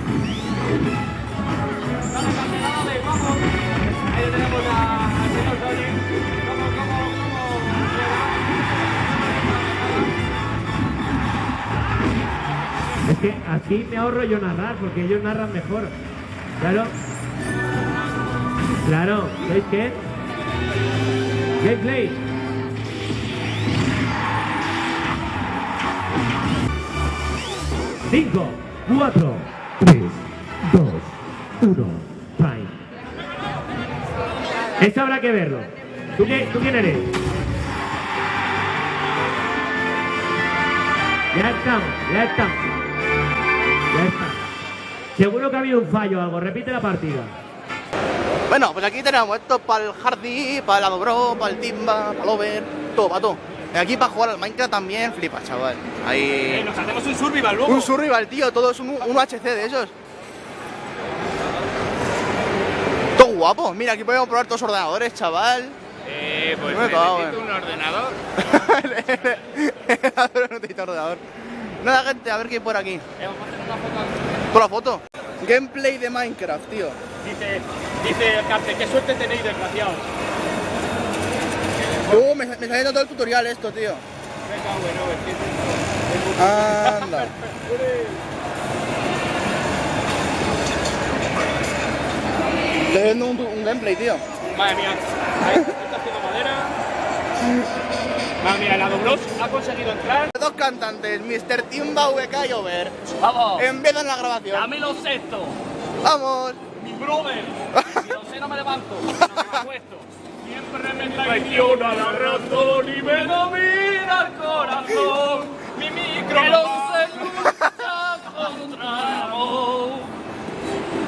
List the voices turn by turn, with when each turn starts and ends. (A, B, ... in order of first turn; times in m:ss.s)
0:02.1-0:08.5 A
0:09.1-0:10.1 A
0:13.0-0:16.0 B
0:16.6-0:16.9 B
0:18.8-0:20.0 B
0:21.6-0:22.2 B
0:28.1-0:32.8 B
0:34.8-0:37.1 B
0:41.3-0:42.6 B
0:43.9-0:44.4 B
0:45.2-0:47.4 B
0:48.5-0:56.7 C
0:56.5-0:57.9 D
0:57.6-0:59.9 C
1:03.2-1:05.8 C
1:06.1-1:08.2 A
1:06.7-1:07.5 C
1:08.4-1:13.0 C
1:13.2-1:14.1 A
1:14.5-1:17.0 C
1:17.5-1:20.1 D
1:22.1-1:24.0 C
1:24.5-1:27.1 A
1:26.4-1:27.3 C
1:32.8-1:34.2 C
1:34.5-1:35.5 A
1:35.5-1:36.7 D
1:38.4-1:40.2 A
1:38.7-1:40.2 D
1:40.3-1:43.0 C
1:43.2-1:43.7 A
1:43.6-1:44.7 C
1:44.5-1:45.6 A
1:46.0-1:46.6 C
1:46.9-1:47.4 D
1:47.0-2:00.1 A
1:47.8-1:48.1 C
1:49.2-1:49.7 C
1:51.4-1:52.1 D